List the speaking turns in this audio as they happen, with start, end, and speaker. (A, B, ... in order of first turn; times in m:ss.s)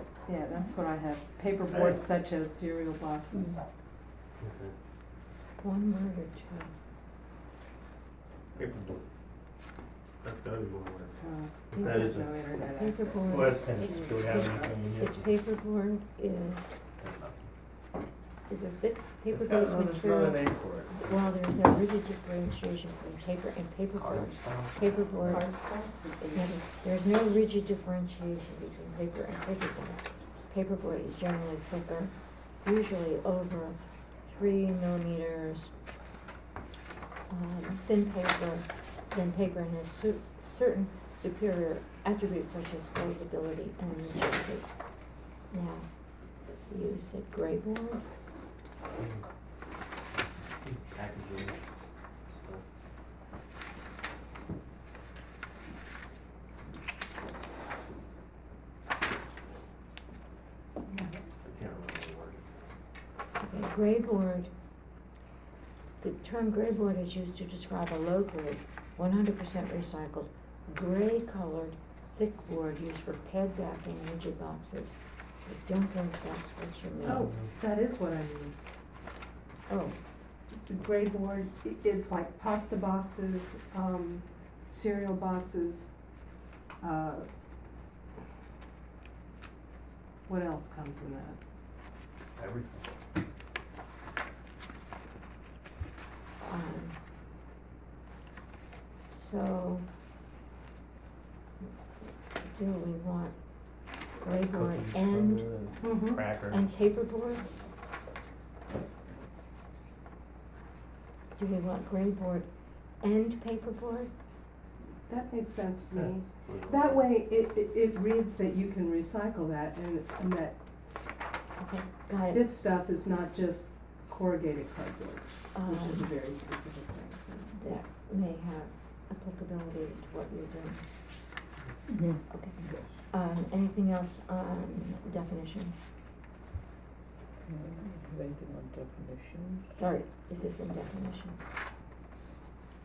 0:00.2-0:03.6 A
0:01.7-0:02.0 B
0:04.4-0:04.7 B
0:05.6-0:06.7 C
0:08.6-0:09.0 B
0:10.2-0:11.1 B
0:11.2-0:14.7 A
0:11.7-0:12.4 B
0:12.7-0:16.7 C
0:13.2-0:15.3 B
0:17.0-0:17.5 B
0:18.5-0:20.4 C
0:19.3-0:21.2 B
0:21.0-0:25.5 C
0:23.9-0:25.3 B
0:25.2-0:26.5 A
0:26.2-0:35.7 C
0:37.3-0:44.7 C
0:45.5-0:45.9 C
0:46.7-0:48.0 C
0:50.6-0:51.6 B
0:52.3-0:52.6 B
1:01.4-1:02.5 B
1:03.4-1:04.5 C
1:06.0-1:17.3 C
1:17.0-1:18.6 A
1:17.2-1:17.5 B
1:19.7-1:20.0 C
1:20.6-1:25.9 A
1:26.8-1:27.3 A
1:30.3-1:31.4 A
1:32.4-1:32.9 B
1:36.4-1:37.0 C
1:39.1-1:39.8 C
1:42.4-1:43.4 C
1:44.2-1:45.5 C
1:44.4-1:46.7 B
1:45.8-1:46.2 A
1:46.4-1:47.4 C
1:51.4-1:52.5 C
1:53.0-1:54.1 C
1:55.1-2:00.6 A
1:56.4-1:57.0 B
2:01.6-2:02.4 C
2:02.1-2:07.4 A
2:05.5-2:06.1 C
2:07.4-2:10.9 C
2:11.9-2:13.0 D
2:12.3-2:15.9 C
2:17.4-2:19.7 D
2:19.7-2:21.4 C